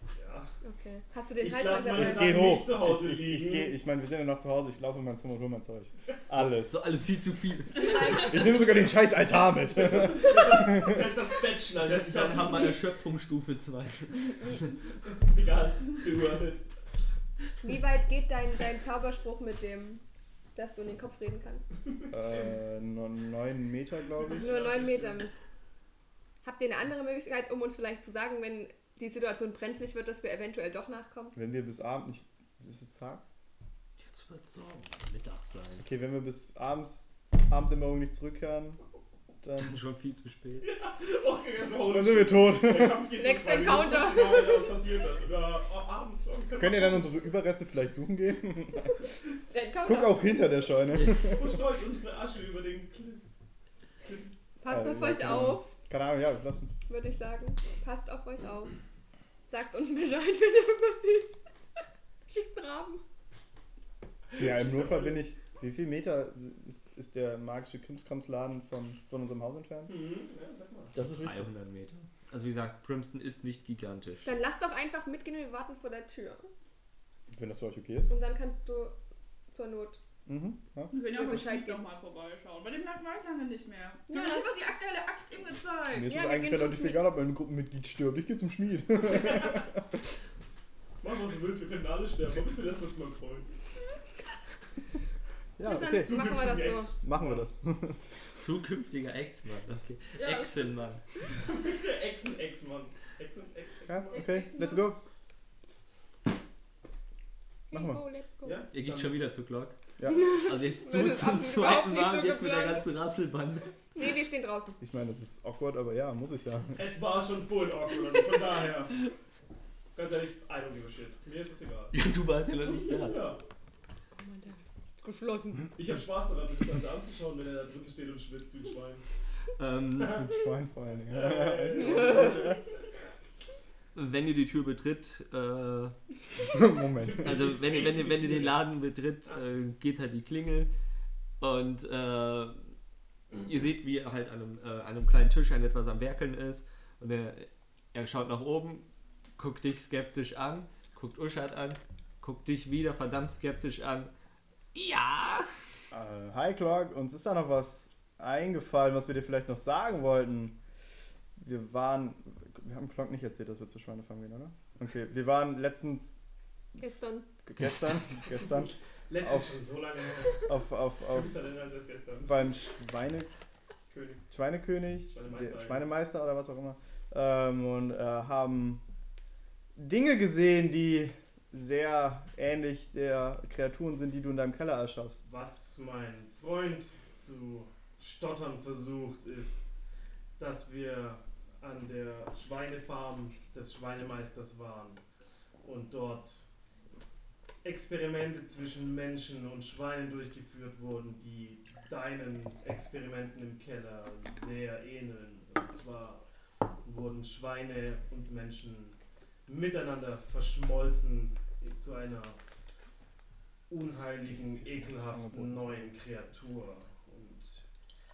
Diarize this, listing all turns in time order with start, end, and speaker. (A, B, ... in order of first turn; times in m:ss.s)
0:00.1-0:00.5 A
0:00.6-0:02.5 B
0:01.4-0:03.7 A
0:01.9-0:06.8 C
0:06.6-0:08.4 D
0:07.8-0:08.6 B
0:07.9-0:11.1 C
0:09.5-0:12.9 A
0:11.8-0:14.7 D
0:15.0-0:16.6 A
0:17.6-0:20.0 B
0:20.5-0:21.7 B
0:22.1-0:24.5 C
0:24.2-0:25.2 A
0:24.4-0:25.4 B
0:26.4-0:31.4 B
0:31.3-0:33.2 C
0:34.0-0:35.9 D
0:35.8-0:38.8 C
0:39.4-0:39.8 C
0:39.6-0:40.7 D
0:40.6-0:47.2 A
0:41.9-0:43.1 C
0:43.1-0:44.8 B
0:46.6-0:49.1 C
0:49.5-0:50.3 B
0:49.8-0:51.5 C
0:51.2-0:53.4 A
0:54.6-0:55.7 B
0:54.6-0:56.8 C
0:56.9-0:58.7 B
0:59.5-1:01.4 B
1:02.3-1:03.0 B
1:04.3-1:05.2 A
1:04.4-1:09.9 C
1:09.9-1:11.0 A
1:10.9-1:14.4 D
1:14.2-1:16.5 B
1:17.3-1:18.1 C
1:18.1-1:19.0 B
1:19.5-1:20.0 B
1:20.2-1:20.9 C
1:20.9-1:26.1 E
1:21.1-1:21.8 B
1:24.1-1:24.5 B
1:25.9-1:29.8 C
1:26.0-1:27.1 B
1:29.0-1:29.7 A
1:31.0-1:33.5 A
1:35.6-1:36.2 C
1:35.6-1:36.9 B
1:36.0-1:37.4 A
1:37.0-1:38.0 C
1:38.4-1:41.0 D
1:40.2-1:40.6 E
1:41.2-1:44.4 A
1:43.9-1:45.0 C
1:44.1-1:44.9 E
1:47.7-1:48.6 B
1:47.7-1:48.0 C
1:48.4-1:49.2 A
1:48.7-1:49.8 D
1:50.0-1:50.3 C
1:50.0-1:52.9 B
1:50.3-1:53.8 D
1:53.9-1:54.8 B
1:54.8-1:56.8 C
1:56.7-1:59.0 A
1:59.9-2:02.0 A
2:01.9-2:03.3 D
2:02.9-2:03.4 A
2:04.2-2:05.7 B
2:05.7-2:09.0 A
2:09.6-2:10.2 D
2:10.0-2:10.3 A
2:10.1-2:12.6 C
2:11.1-2:12.6 A
2:12.0-2:12.3 B
2:13.9-2:15.9 D
2:16.5-2:17.4 C
2:17.0-2:18.7 A
2:17.2-2:20.7 D
2:21.4-2:22.7 D
2:23.4-2:28.8 D
2:29.4-2:34.1 D
2:34.7-2:35.5 D
2:35.9-2:40.6 C
2:41.4-2:46.2 C
2:46.8-2:47.3 B
2:47.4-2:49.5 C
2:48.3-2:52.4 A
2:50.4-2:51.3 C
2:52.2-2:53.3 C
2:53.9-2:54.2 A
2:54.3-2:58.8 C
2:55.1-2:56.0 A
2:59.8-3:05.2 C
3:05.2-3:09.7 A
3:10.4-3:15.0 A
3:15.6-3:16.4 A
3:17.6-3:26.2 A
3:26.8-3:32.4 A
3:33.7-3:37.6 A
3:34.3-3:35.9 C